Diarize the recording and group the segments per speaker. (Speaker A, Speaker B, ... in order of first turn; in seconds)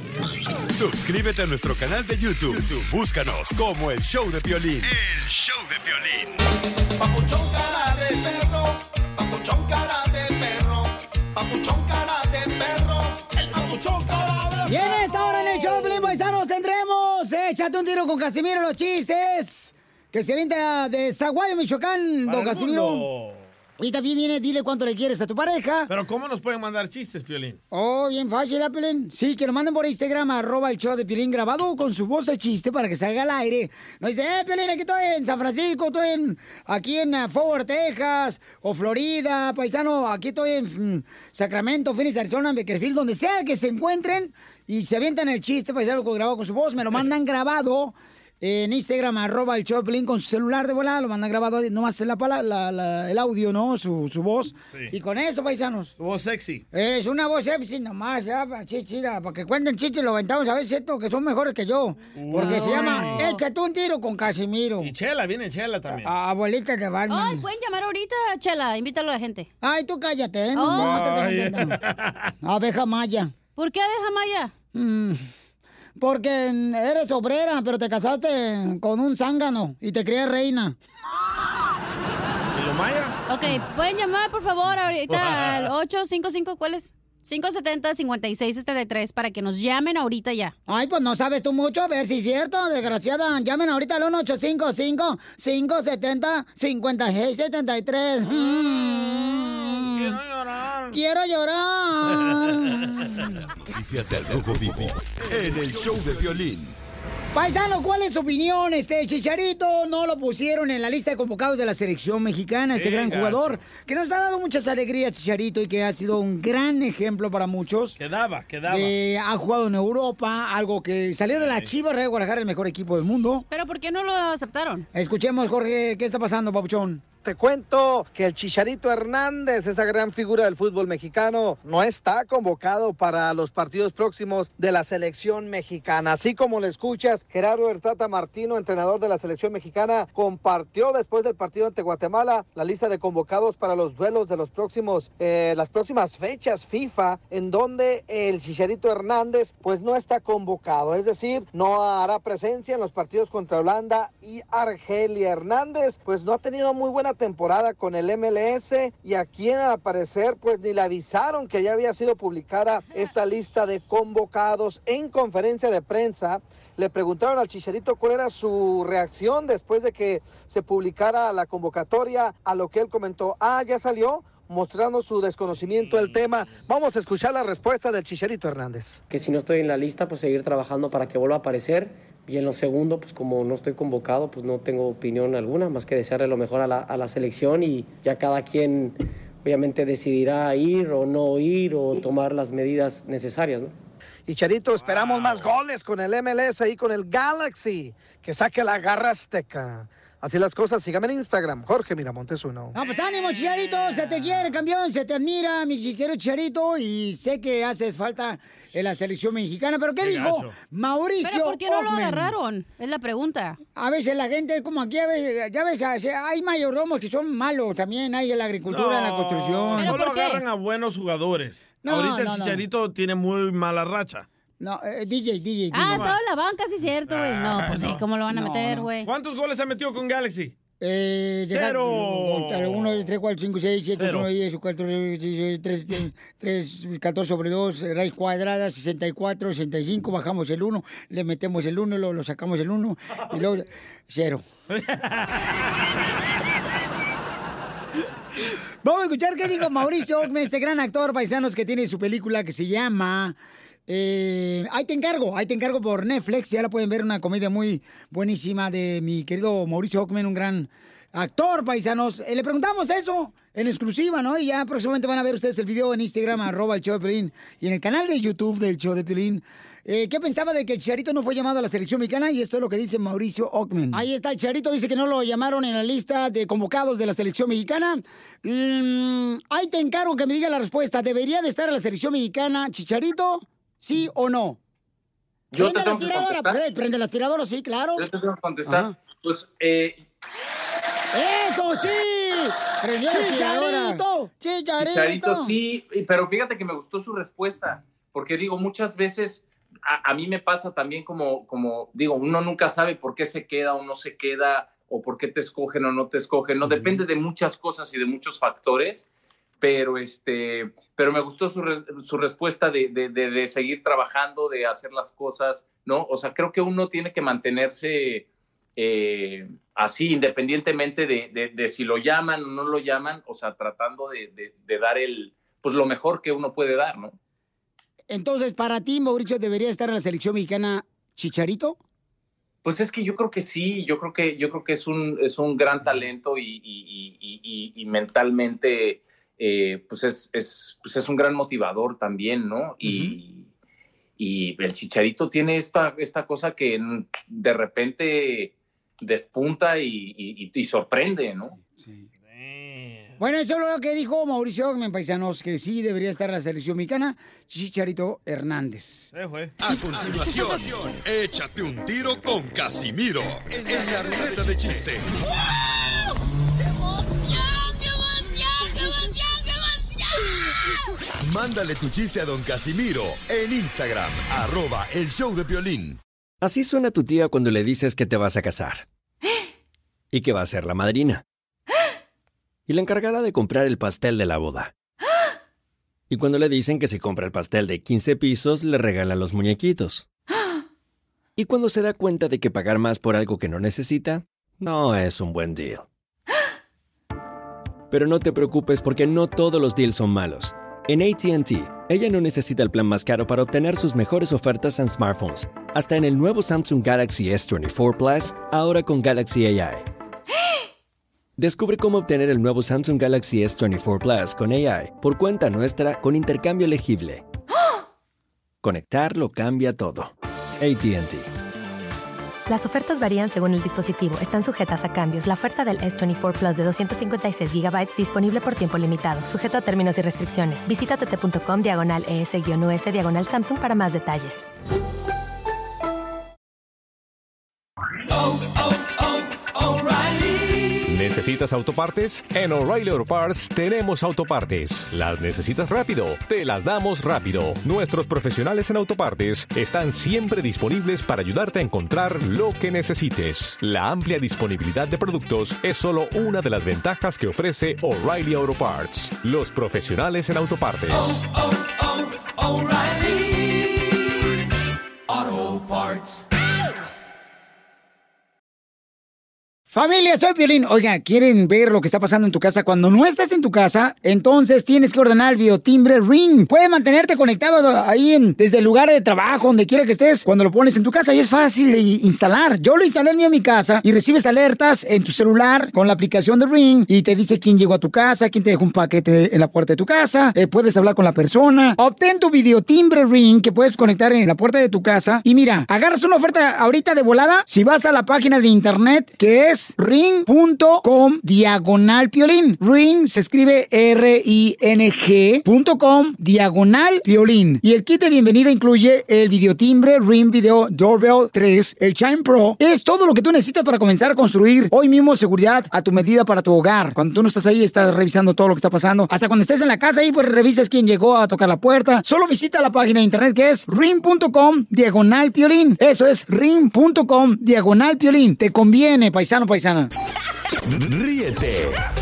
Speaker A: 0.7-5.0, 103.7-106.7, 359.6-365.1, 371.2-376.0, 530.7-531.8
Speaker B: 7.0-14.9
Speaker C: 14.6-23.1, 23.8-25.9, 27.7-55.9, 56.7-64.9, 66.0-67.4, 69.6-71.8, 72.4-73.3, 74.7-75.2, 76.0-80.8, 90.7-100.2, 100.9-103.3, 107.3-118.0, 118.7-123.4, 124.9-127.0, 202.7-212.3, 213.8-220.0, 221.8-222.6, 224.6-226.1, 228.3-228.9, 230.8-244.4, 248.8-284.6, 285.6-288.1, 291.1-295.5, 328.1-331.8, 351.8-352.1, 353.2-359.1, 469.7-529.9
Speaker D: 22.2-23.5, 25.9-27.6, 56.0-56.6, 62.1-63.3, 64.8-66.1, 70.7-72.3, 82.5-83.2, 85.1-85.7, 98.3-101.0, 112.7-113.6, 118.0-118.9, 121.4-121.7, 175.8-176.2, 194.8-195.5, 203.1-204.4, 210.0-210.6, 218.7-224.2, 225.8-226.2, 227.1-228.0, 229.0-230.6, 231.5-233.0, 234.0-234.3, 244.7-245.5, 352.3-353.1, 359.1-359.6
Speaker E: 62.3-63.4, 67.1-69.5, 70.5-71.0, 73.5-74.5, 83.3-90.5, 123.5-124.8, 211.2-213.6, 219.8-220.4, 225.7-229.1, 293.2-293.9
Speaker F: 127.2-179.0, 194.3-202.7
Speaker G: 179.1-193.7
Speaker H: 285.5-286.6, 287.9-290.0, 294.8-309.1, 309.6-318.2, 318.8-327.1, 332.6-343.5, 344.2-351.5
Speaker I: 376.4-378.8, 380.1-381.2, 382.7-384.7, 386.1-390.0, 391.4-395.9, 397.9-409.9, 411.4-417.2, 418.6-421.3
Speaker J: 422.5-434.4
Speaker K: 440.9-461.0